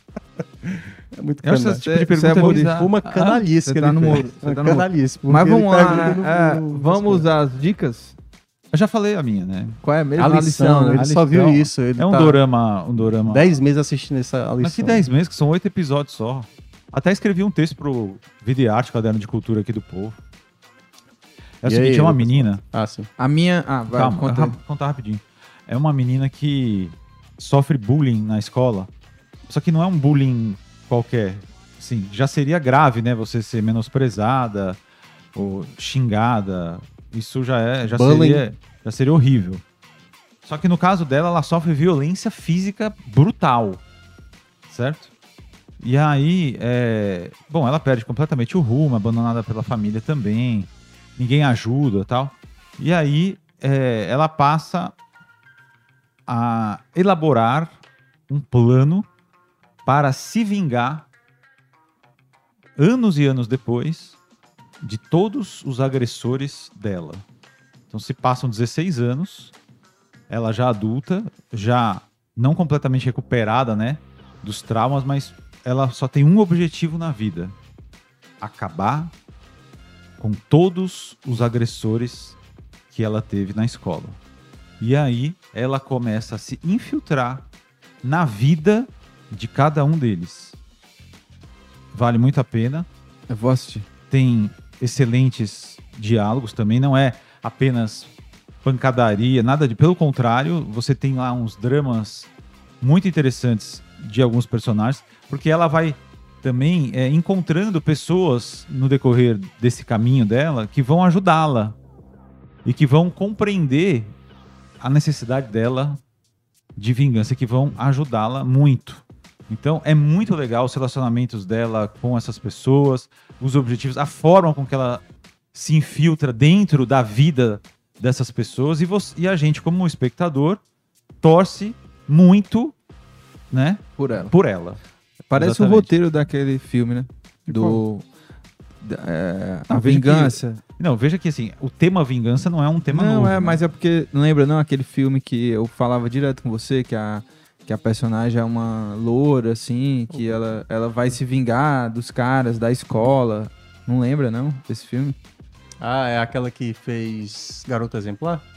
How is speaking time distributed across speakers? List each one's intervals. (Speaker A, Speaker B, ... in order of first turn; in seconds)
Speaker A: 1.1-7.2, 10.2-12.4, 13.0-15.0, 21.6-23.1, 37.9-38.4, 150.1-150.5, 155.8-158.4
Speaker B: 1.4-3.0, 8.7-9.8, 11.0-13.5, 14.6-20.2, 21.6-22.6, 23.9-28.9, 29.5-34.8, 35.3-39.6, 40.4-43.8, 44.7-45.1, 45.8-54.9, 56.3-59.1, 59.9-61.1, 62.8-64.2, 64.8-67.2, 67.9-69.5, 70.3-77.5, 78.4-79.1, 80.2-82.4, 82.9-84.2, 84.8-87.5, 88.0-90.6, 91.9-92.9, 94.1-98.1, 98.6-102.3, 102.8-111.8, 112.6-114.1, 114.8-116.0, 116.8-125.0, 125.5-130.6, 131.2-132.7, 133.5-134.8, 135.3-135.9, 139.7-143.6
Speaker C: 1.8-8.1, 9.8-11.1, 23.2-24.6, 93.3-93.9, 134.0-134.3, 135.3-138.1, 138.8-140.6, 142.9-155.2